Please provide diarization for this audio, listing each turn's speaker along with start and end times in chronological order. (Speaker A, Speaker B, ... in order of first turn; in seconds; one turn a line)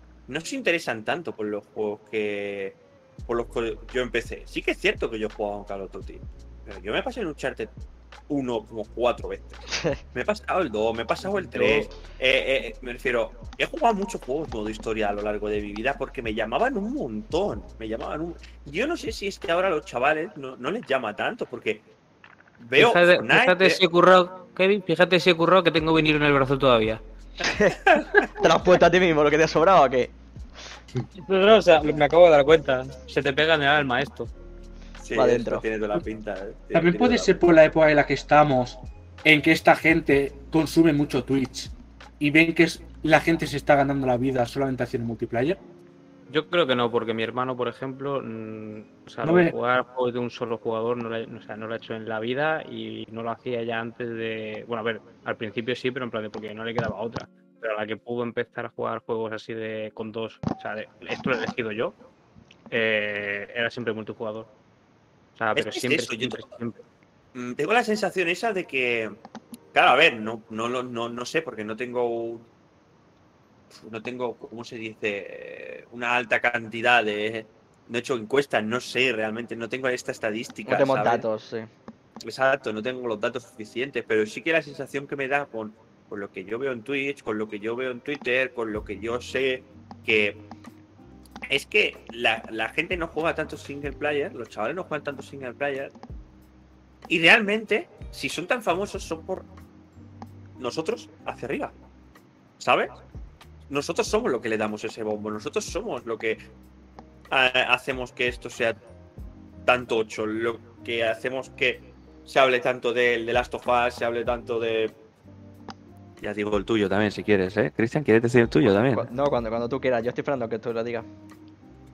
Speaker A: 0.3-7.7
Speaker A: 8.3-21.8
Speaker B: 9.7-10.0
Speaker C: 11.3-11.9
Speaker A: 22.6-23.8
Speaker C: 22.8-27.0
Speaker B: 27.4-27.8
Speaker A: 27.8-28.4
Speaker B: 28.4-30.1
Speaker C: 31.1-34.3
Speaker A: 35.0-37.4
Speaker B: 35.1-35.6
Speaker D: 36.7-45.6
Speaker C: 46.3-61.9
Speaker D: 49.2-49.5
Speaker C: 62.7-64.5
Speaker C: 65.4-66.8
Speaker A: 65.5-66.5
Speaker A: 67.3-69.2
Speaker A: 69.7-72.5
Speaker A: 73.7-81.2
Speaker B: 80.7-81.7
Speaker A: 82.2-90.4
Speaker A: 91.5-95.9
Speaker A: 97.1-99.5
Speaker A: 100.6-101.7
Speaker A: 102.6-103.0
Speaker A: 103.7-106.4
Speaker A: 107.3-108.8
Speaker A: 109.7-114.9
Speaker A: 116.2-119.1
Speaker B: 118.9-121.1